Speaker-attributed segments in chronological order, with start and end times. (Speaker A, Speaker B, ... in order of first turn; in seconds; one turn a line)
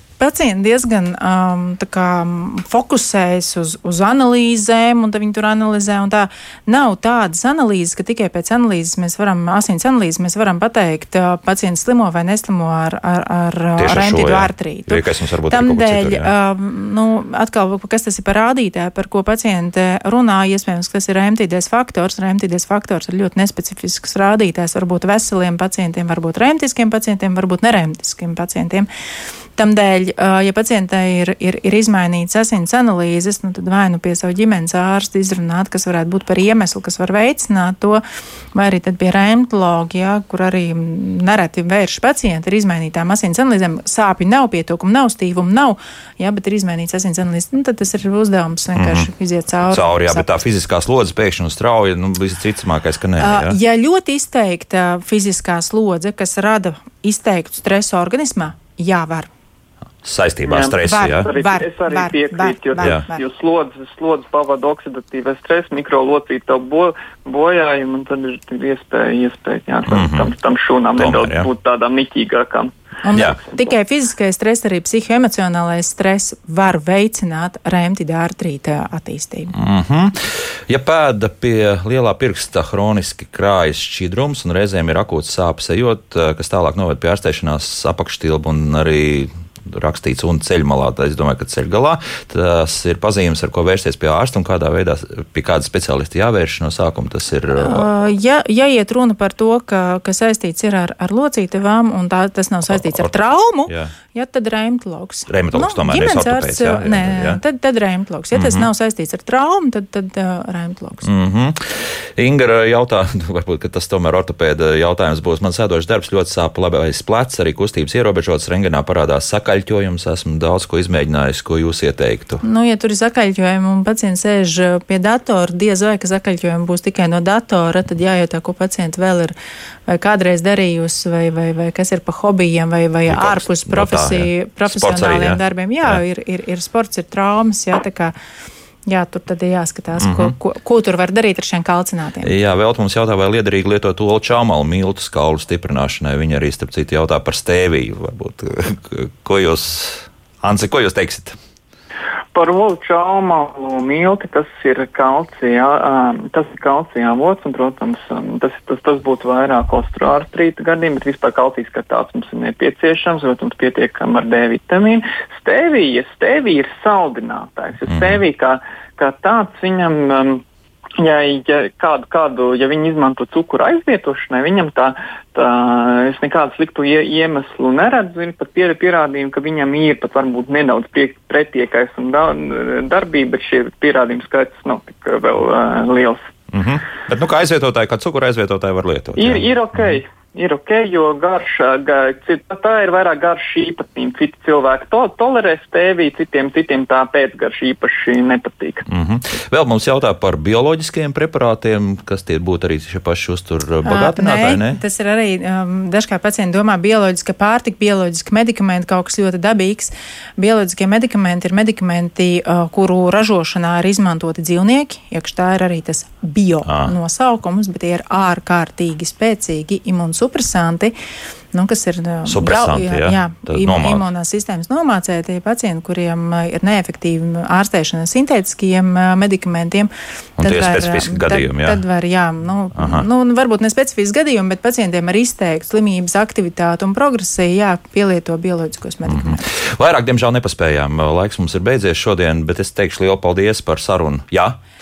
Speaker A: 0.2-28.9
Speaker B: 13.8-16.3
Speaker A: 29.6-38.0
Speaker A: 38.5-50.3
Speaker B: 48.8-49.1
Speaker B: 49.7-53.6
Speaker A: 53.2-59.3
Speaker B: 60.0-61.3
Speaker C: 60.5-73.7
Speaker A: 60.9-63.2
Speaker B: 69.9-70.3
Speaker B: 71.0-71.5
Speaker A: 73.0-79.5
Speaker B: 79.5-97.9
Speaker A: 97.6-111.1
Speaker B: 102.7-103.9
Speaker B: 105.3-107.4
Speaker B: 108.3-108.7
Speaker B: 111.0-122.4
Speaker A: 122.4-129.4
Speaker A: 129.9-138.2
Speaker B: 133.1-136.0
Speaker A: 138.9-142.3
Speaker B: 140.0-140.3
Speaker B: 142.2-151.4
Speaker C: 152.3-170.4
Speaker B: 167.9-168.2
Speaker C: 171.0-186.3
Speaker B: 186.5-190.0
Speaker C: 189.2-198.8
Speaker B: 198.9-204.8
Speaker A: 203.8-220.9
Speaker B: 216.7-216.9
Speaker A: 221.5-239.4
Speaker B: 222.3-224.0
Speaker B: 230.4-231.8
Speaker B: 232.8-233.1
Speaker B: 239.1-244.6